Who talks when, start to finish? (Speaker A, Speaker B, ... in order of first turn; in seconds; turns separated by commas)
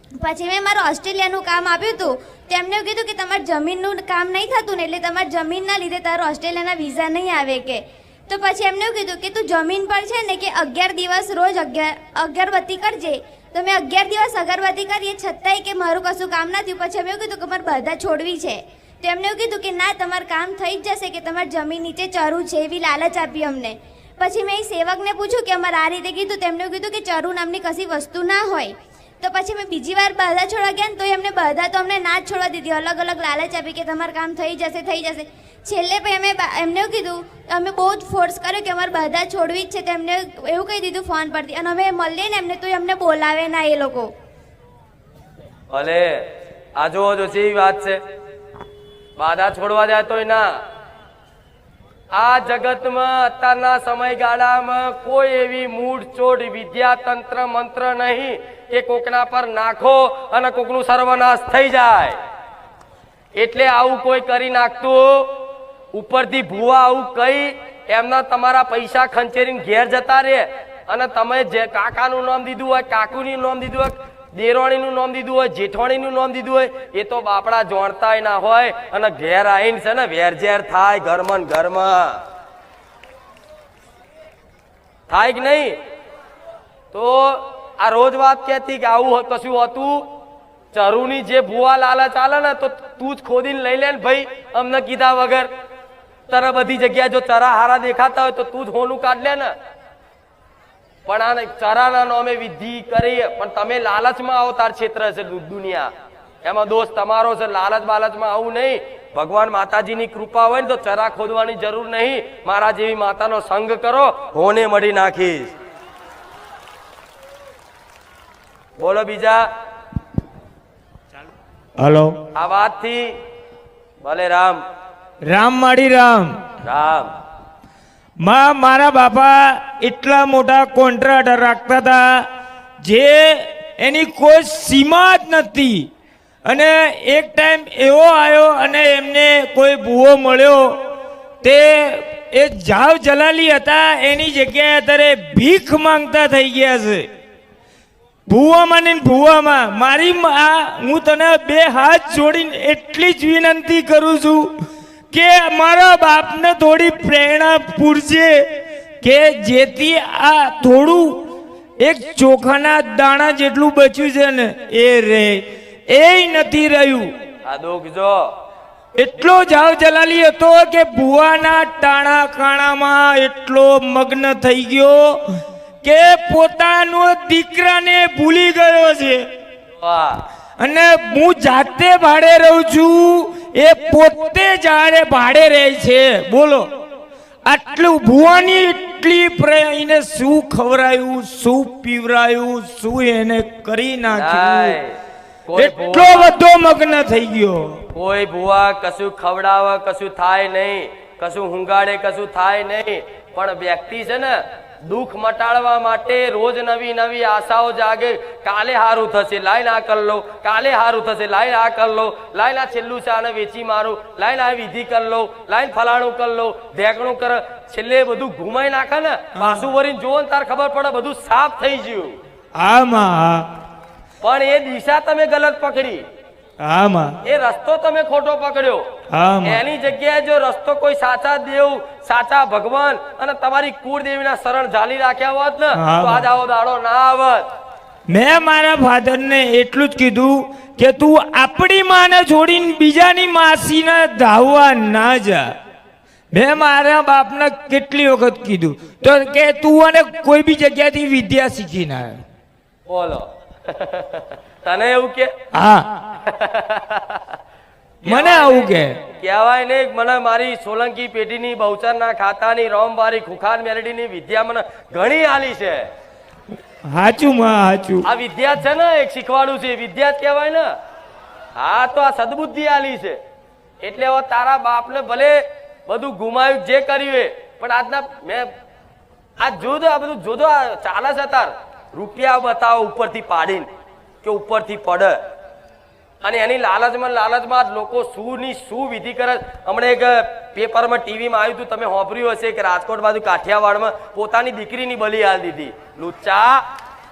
Speaker A: 0.2-44.1, Speaker B: 45.7-46.2, Speaker B: 46.8-48.0, Speaker B: 49.2-50.5, Speaker B: 52.1-62.2, Speaker B: 63.4-65.3, Speaker B: 65.9-82.2, Speaker B: 85.1-85.8, Speaker B: 86.9-90.1, Speaker B: 90.7-95.5, Speaker B: 96.3-99.5, Speaker B: 101.1-105.9, Speaker B: 106.4-115.5, Speaker B: 118.8-119.5, Speaker C: 121.8-122.2, Speaker B: 122.3-123.1, Speaker B: 124.0-124.6, Speaker C: 125.3-126.3, Speaker B: 126.6-127.1, Speaker C: 128.2-132.3, Speaker C: 132.8-135.9, Speaker C: 136.4-140.8, Speaker C: 141.4-147.1, Speaker C: 148.3-154.5, Speaker C: 155.1-158.4, Speaker C: 159.0-161.3, Speaker C: 161.8-167.1, Speaker B: 167.4-168.3, Speaker C: 169.0-175.2, Speaker C: 175.8-179.3, Speaker B: 179.8-180.2, Speaker C: 180.6-186.7, Speaker C: 187.5-194.8, Speaker B: 194.1-194.9, Speaker B: 195.5-196.2, Speaker C: 195.5-197.8, Speaker B: 197.9-222.2, Speaker C: 219.4-219.7, Speaker C: 222.6-223.5, Speaker B: 224.2-226.1, Speaker C: 226.6-227.2, Speaker B: 227.2-228.8, Speaker C: 229.1-229.6, Speaker B: 229.4-237.5, Speaker C: 235.8-236.3, Speaker C: 238.1-245.5, Speaker C: 246.3-252.2, Speaker B: 252.9-255.3, Speaker C: 255.5-255.9, Speaker B: 256.3-257.1, Speaker B: 258.0-265.9, Speaker C: 258.1-259.0, Speaker C: 266.9-268.1, Speaker B: 268.1-270.7, Speaker B: 271.6-273.2, Speaker B: 273.8-278.5, Speaker B: 279.4-283.7, Speaker B: 284.2-285.2, Speaker B: 286.2-296.6